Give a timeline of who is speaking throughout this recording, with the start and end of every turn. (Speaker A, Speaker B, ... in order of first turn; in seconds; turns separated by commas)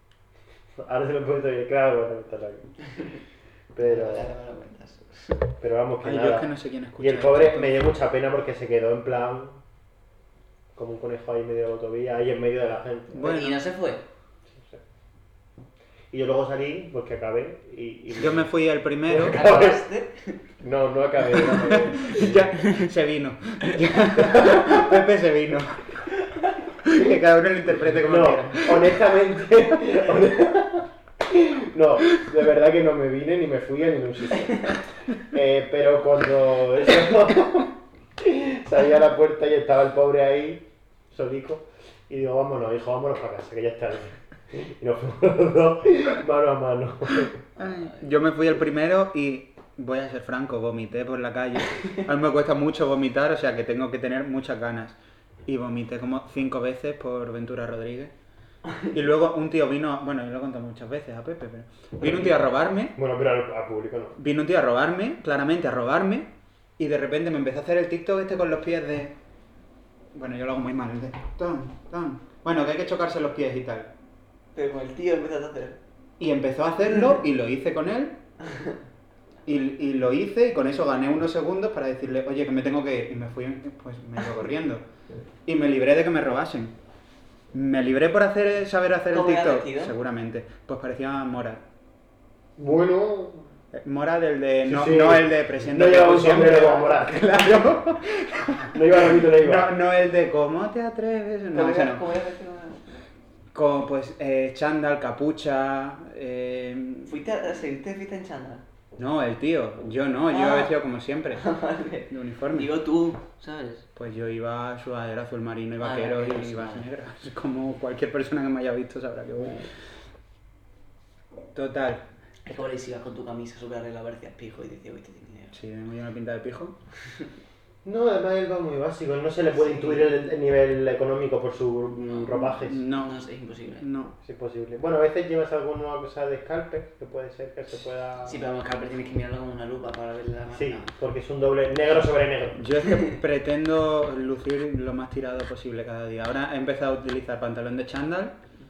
Speaker A: 0.8-2.7, Speaker A: 3.8-4.3, Speaker B: 3.8-5.3, Speaker A: 5.6-9.6, Speaker C: 6.0-7.9, Speaker A: 10.8-13.3, Speaker C: 13.1-13.7, Speaker B: 13.2-14.0, Speaker A: 14.6-14.8, Speaker A: 16.1-18.5, Speaker C: 18.1-19.7, Speaker A: 19.1-19.8, Speaker B: 19.3-20.4, Speaker A: 20.6-22.5, Speaker C: 21.4-26.0, Speaker A: 24.4-24.7, Speaker C: 26.8-28.9, Speaker A: 28.0-47.4, Speaker C: 47.6-58.1, Speaker C: 58.9-63.0, Speaker A: 62.0-62.3, Speaker A: 62.9-64.2, Speaker C: 64.2-69.2, Speaker C: 70.1-73.9, Speaker B: 74.5-75.8, Speaker C: 76.2-78.2, Speaker C: 79.5-84.8, Speaker C: 85.5-86.8, Speaker C: 87.5-91.6, Speaker B: 89.1-89.9, Speaker A: 92.6-93.5, Speaker C: 93.7-102.0, Speaker A: 94.7-97.3, Speaker A: 98.7-99.7, Speaker B: 101.5-103.0, Speaker C: 103.5-107.1, Speaker B: 107.1-108.6, Speaker C: 109.0-111.5, Speaker B: 110.3-110.8, Speaker B: 111.3-113.9, Speaker C: 112.1-112.7, Speaker C: 114.0-119.7, Speaker B: 115.8-116.9, Speaker C: 121.5-122.0, Speaker B: 122.5-125.5, Speaker C: 125.5-126.8, Speaker A: 127.8-132.8, Speaker B: 129.5-130.1, Speaker B: 132.1-133.9, Speaker C: 132.4-133.2, Speaker C: 133.8-134.1, Speaker A: 134.2-138.4, Speaker B: 138.2-140.9, Speaker A: 140.5-142.7, Speaker C: 142.6-148.3